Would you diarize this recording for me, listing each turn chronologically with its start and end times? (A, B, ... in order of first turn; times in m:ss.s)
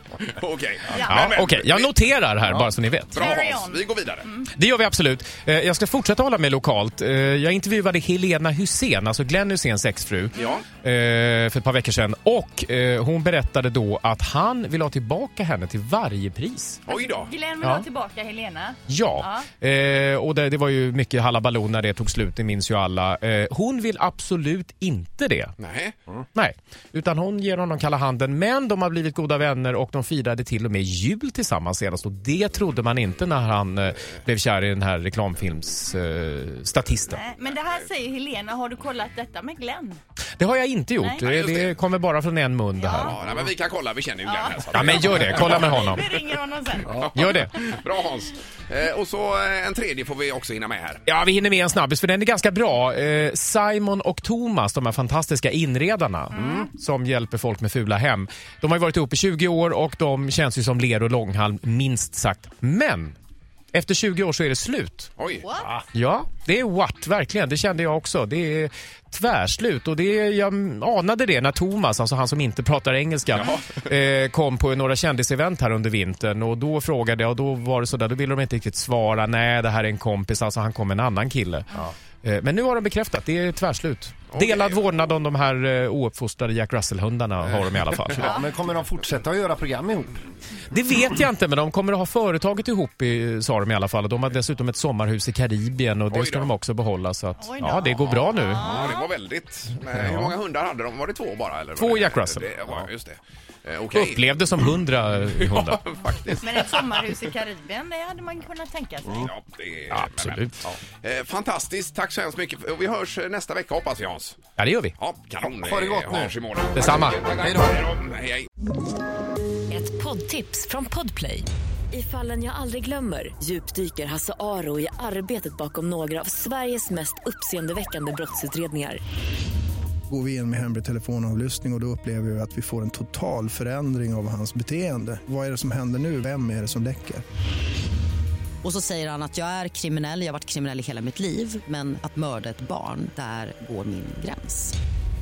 0:00.2-0:01.9 A
0:00.9-0:01.3 B
0:01.0-0:03.3 C
0:03.1-0:04.3 A
0:03.2-0:04.4 B
0:04.4-0:16.8 C
0:10.4-0:10.6 A
0:16.9-0:17.3 A
0:16.9-0:19.5 B
0:17.6-0:17.9 C
0:18.9-0:25.5 C
0:25.6-0:25.9 A
0:26.3-0:37.2 C
0:37.1-0:40.0 B
0:40.4-0:43.2 C
0:41.2-0:41.8 A
0:42.8-0:43.2 B
0:43.0-0:46.0 A
0:44.3-0:47.0 B
0:44.7-0:46.0 C
0:46.9-0:51.0 A
0:47.1-0:47.5 C
0:51.0-1:03.2 C
0:56.3-0:56.6 B
1:03.7-1:05.1 C
1:05.2-1:05.7 A
1:05.9-1:28.4 C
1:13.3-1:13.8 A
1:24.3-1:24.8 A
1:28.2-1:30.1 D
1:30.7-1:38.8 C
1:36.1-1:36.5 A
1:37.4-1:39.1 B
1:37.7-1:44.7 A
1:39.8-1:40.4 C
1:41.8-1:42.8 C
1:43.9-1:45.8 C
1:45.3-1:47.0 A
1:46.4-1:49.3 B
1:49.1-1:54.4 A
1:49.9-1:50.6 C
1:54.6-1:54.9 C
1:55.0-1:58.5 A
1:55.6-1:56.4 D
1:56.8-1:57.2 C
1:57.4-1:57.8 D
1:59.7-2:09.0 E
2:10.1-2:17.2 F
2:18.6-2:24.8 G